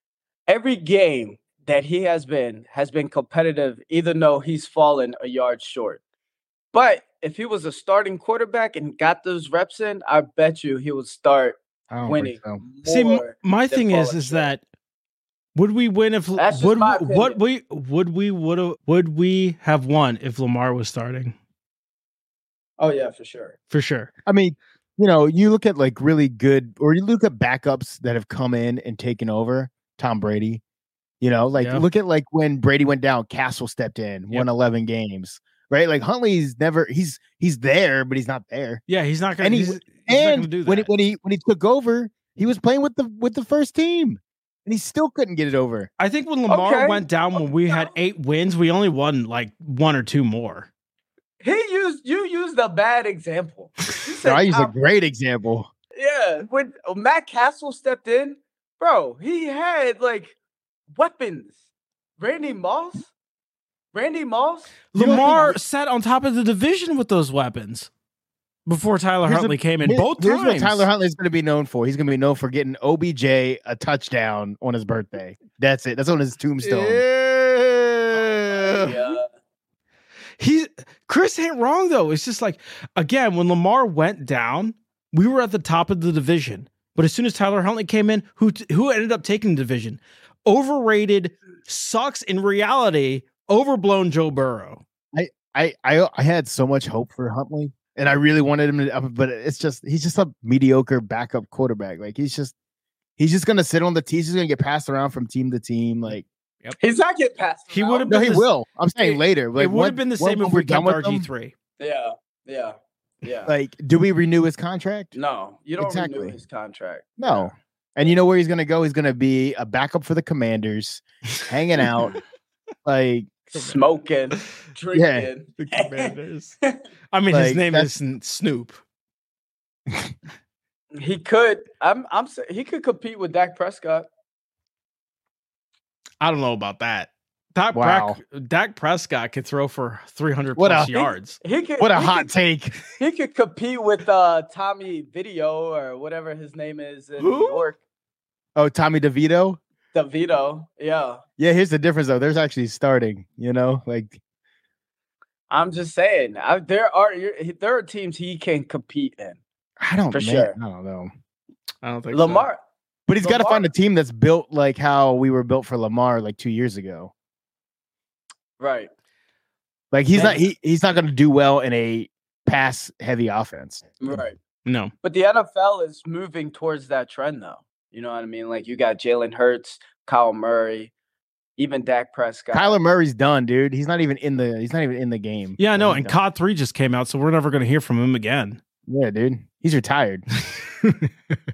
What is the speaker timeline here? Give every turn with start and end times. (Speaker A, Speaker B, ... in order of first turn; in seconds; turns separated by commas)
Speaker A: 0.5-6.0, Speaker A: 6.7-14.5, Speaker B: 11.9-12.6, Speaker C: 12.8-14.6, Speaker C: 15.5-21.3, Speaker A: 16.4-17.4, Speaker A: 22.8-23.6, Speaker C: 23.7-24.1, Speaker B: 24.2-30.6, Speaker B: 31.2-38.8, Speaker C: 31.6-31.8, Speaker C: 38.9-40.9, Speaker B: 39.4-45.9, Speaker C: 46.0-50.7, Speaker A: 46.5-47.9, Speaker A: 51.4-54.7, Speaker B: 54.2-55.7, Speaker A: 56.0-60.3, Speaker A: 60.9-61.5, Speaker A: 62.2-63.1, Speaker A: 63.9-65.5, Speaker C: 64.9-67.9, Speaker B: 64.9-65.6, Speaker C: 68.7-70.9, Speaker B: 69.2-77.0, Speaker C: 76.6-79.1, Speaker A: 78.2-79.3, Speaker C: 80.4-94.8, Speaker B: 95.1-102.5, Speaker B: 103.2-106.2, Speaker A: 106.8-108.1, Speaker C: 107.7-108.5, Speaker B: 108.1-111.2, Speaker C: 109.0-111.5, Speaker A: 111.8-113.5, Speaker B: 113.5-115.1, Speaker A: 115.1-117.5, Speaker B: 115.8-116.4, Speaker B: 117.2-122.1, Speaker B: 122.8-123.4, Speaker A: 123.5-126.8, Speaker B: 124.9-125.3, Speaker C: 125.6-126.6, Speaker C: 127.1-128.8, Speaker B: 127.3-127.9, Speaker B: 129.9-130.1, Speaker A: 130.9-134.1, Speaker C: 136.2-141.4, Speaker B: 137.7-138.2, Speaker B: 140.6-141.1, Speaker A: 141.4-142.3, Speaker B: 141.8-142.8, Speaker A: 143.0-147.8, Speaker C: 147.2-147.7, Speaker B: 148.6-149.6, Speaker A: 149.9-151.2, Speaker B: 151.4-154.2, Speaker A: 155.5-159.4, Speaker B: 159.8-161.1, Speaker A: 160.1-160.6, Speaker C: 161.8-162.4, Speaker A: 162.1-162.6, Speaker B: 163.1-167.1, Speaker A: 163.2-163.7, Speaker A: 168.6-168.9, Speaker B: 169.9-174.0, Speaker A: 170.1-170.5, Speaker A: 174.0-174.4, Speaker C: 174.7-174.9, Speaker A: 175.0-180.9, Speaker A: 181.6-182.8, Speaker B: 182.5-186.2, Speaker C: 185.6-188.6, Speaker B: 188.9-190.2, Speaker C: 190.8-191.1